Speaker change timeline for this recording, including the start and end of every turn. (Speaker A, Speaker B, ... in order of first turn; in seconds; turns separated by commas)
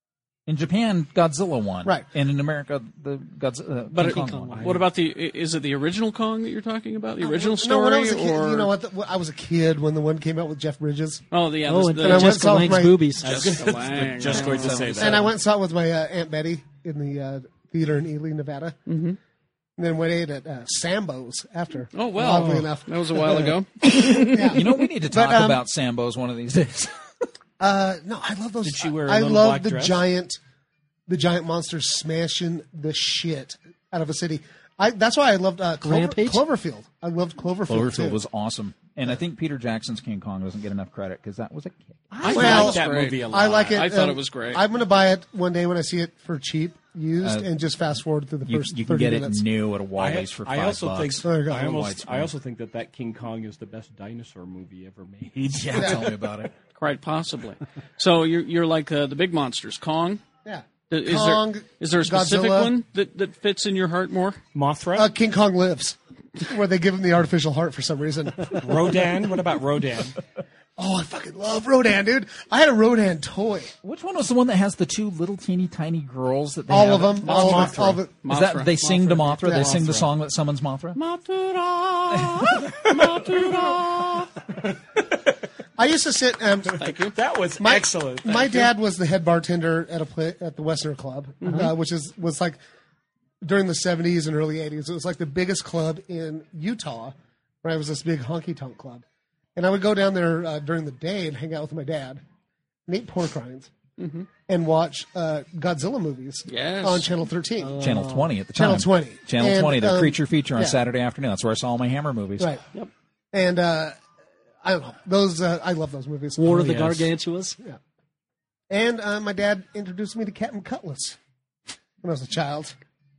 Speaker A: 0.5-4.8, Speaker B: 3.9-8.7, Speaker C: 4.0-4.7, Speaker D: 4.5-4.8, Speaker E: 7.2-11.2, Speaker B: 11.3-15.1, Speaker C: 11.7-13.6, Speaker E: 12.0-13.1, Speaker D: 13.2-15.3, Speaker A: 14.3-15.2, Speaker E: 15.0-18.8, Speaker B: 18.9-19.2, Speaker E: 19.8-25.6, Speaker B: 21.9-24.8, Speaker D: 22.3-22.7, Speaker A: 24.5-27.0, Speaker E: 27.6-30.4, Speaker D: 28.6-30.1, Speaker E: 31.1-38.2, Speaker C: 35.8-36.4, Speaker A: 37.7-42.6, Speaker B: 42.2-44.6, Speaker D: 42.2-43.9, Speaker E: 42.3-49.4, Speaker A: 47.2-47.5, Speaker A: 48.5-52.3, Speaker D: 50.0-56.1, Speaker E: 51.2-51.8, Speaker A: 55.4-56.5, Speaker B: 56.8-60.2, Speaker E: 60.5-62.7, Speaker B: 60.9-64.4, Speaker D: 64.5-65.1, Speaker E: 65.0-69.0, Speaker D: 68.6-70.2, Speaker E: 70.8-73.7, Speaker A: 73.8-81.0, Speaker E: 76.7-78.1, Speaker D: 77.2-78.0, Speaker B: 77.3-80.0, Speaker E: 79.4-79.8, Speaker B: 81.0-84.3, Speaker D: 82.8-83.8, Speaker E: 85.8-86.9, Speaker B: 86.8-87.2, Speaker D: 87.0-88.7, Speaker E: 87.6-92.6, Speaker B: 91.4-91.7, Speaker E: 93.4-99.0, Speaker E: 99.6-102.2, Speaker E: 102.9-103.7, Speaker B: 104.0-104.3, Speaker E: 104.5-107.8, Speaker B: 106.5-107.2, Speaker C: 107.6-108.3, Speaker A: 107.8-112.6, Speaker E: 108.5-110.8, Speaker E: 112.4-112.6, Speaker E: 113.3-114.0, Speaker E: 114.6-117.0, Speaker C: 116.4-117.6, Speaker D: 116.7-117.0, Speaker E: 118.7-121.2, Speaker E: 122.0-122.8